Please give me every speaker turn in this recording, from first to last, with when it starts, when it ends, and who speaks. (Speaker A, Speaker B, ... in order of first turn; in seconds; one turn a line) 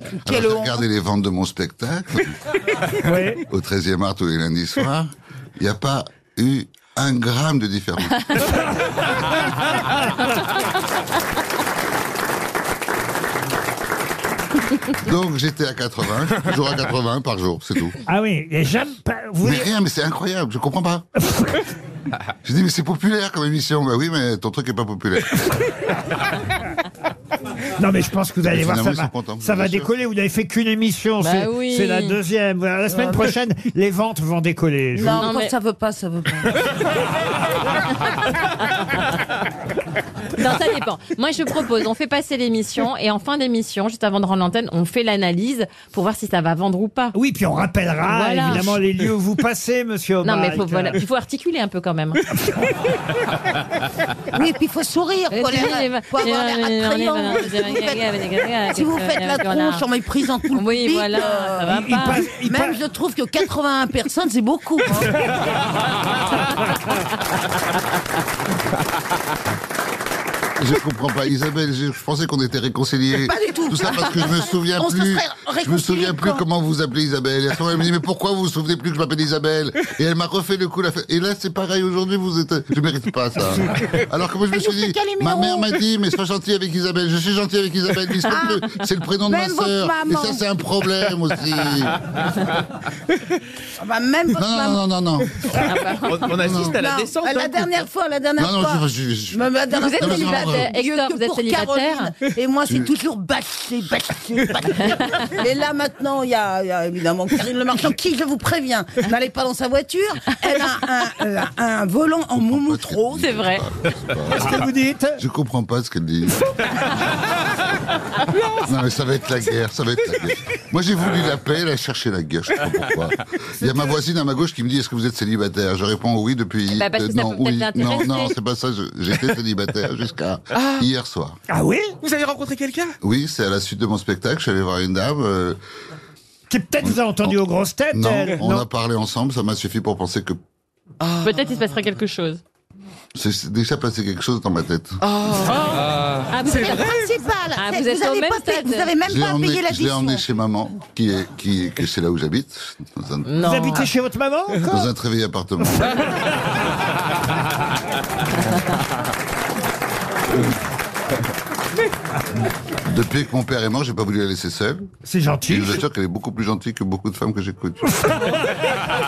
Speaker A: 0.2-0.8
Speaker B: 0.2-2.4
Speaker C: 3.0-3.4
Speaker B: 3.5-8.7
Speaker B: 14.9-18.0
Speaker C: 18.1-19.7
Speaker B: 19.4-21.1
Speaker B: 22.4-25.4
Speaker C: 27.8-35.2
Speaker B: 28.4-29.9
Speaker D: 31.2-32.2
Speaker A: 32.9-33.3
Speaker A: 34.9-36.6
Speaker D: 35.0-35.5
Speaker D: 40.3-47.1
Speaker C: 47.1-51.0
Speaker D: 48.0-48.7
Speaker D: 50.2-52.2
Speaker A: 54.3-58.0
Speaker D: 55.3-59.9
Speaker A: 58.7-61.7
Speaker D: 60.5-62.2
Speaker C: 61.7-62.8
Speaker A: 62.4-65.2
Speaker B: 70.6-92.1
Speaker A: 73.2-76.4
Speaker A: 84.5-85.8
Speaker A: 88.3-88.6
Speaker A: 89.2-90.4
Speaker A: 93.8-94.8
Speaker B: 94.3-95.5
Speaker D: 95.6-96.3
Speaker E: 96.1-97.8
Speaker B: 96.3-96.8
Speaker A: 96.5-113.4
Speaker B: 98.4-99.4
Speaker D: 99.7-102.2
Speaker B: 100.0-100.7
Speaker D: 104.8-105.3
Speaker B: 112.3-117.2
Speaker D: 113.1-113.6
Speaker C: 114.3-115.2
Speaker B: 118.5-131.4
Speaker D: 126.7-128.3
Speaker C: 131.5-131.9
Speaker E: 132.0-132.9
Speaker B: 133.0-135.6
Speaker C: 136.5-138.7
Speaker B: 136.8-137.4
Speaker B: 137.9-140.4
Speaker D: 141.2-142.4
Speaker B: 143.1-145.0
Speaker E: 145.1-146.1
Speaker D: 145.4-145.8
Speaker D: 146.3-146.9
Speaker A: 146.4-150.2
Speaker D: 147.6-148.9
Speaker B: 149.0-153.6
Speaker D: 153.2-153.9
Speaker C: 153.4-154.9
Speaker B: 154.7-156.2
Speaker B: 162.8-164.9
Speaker C: 165.0-165.8
Speaker B: 165.5-168.0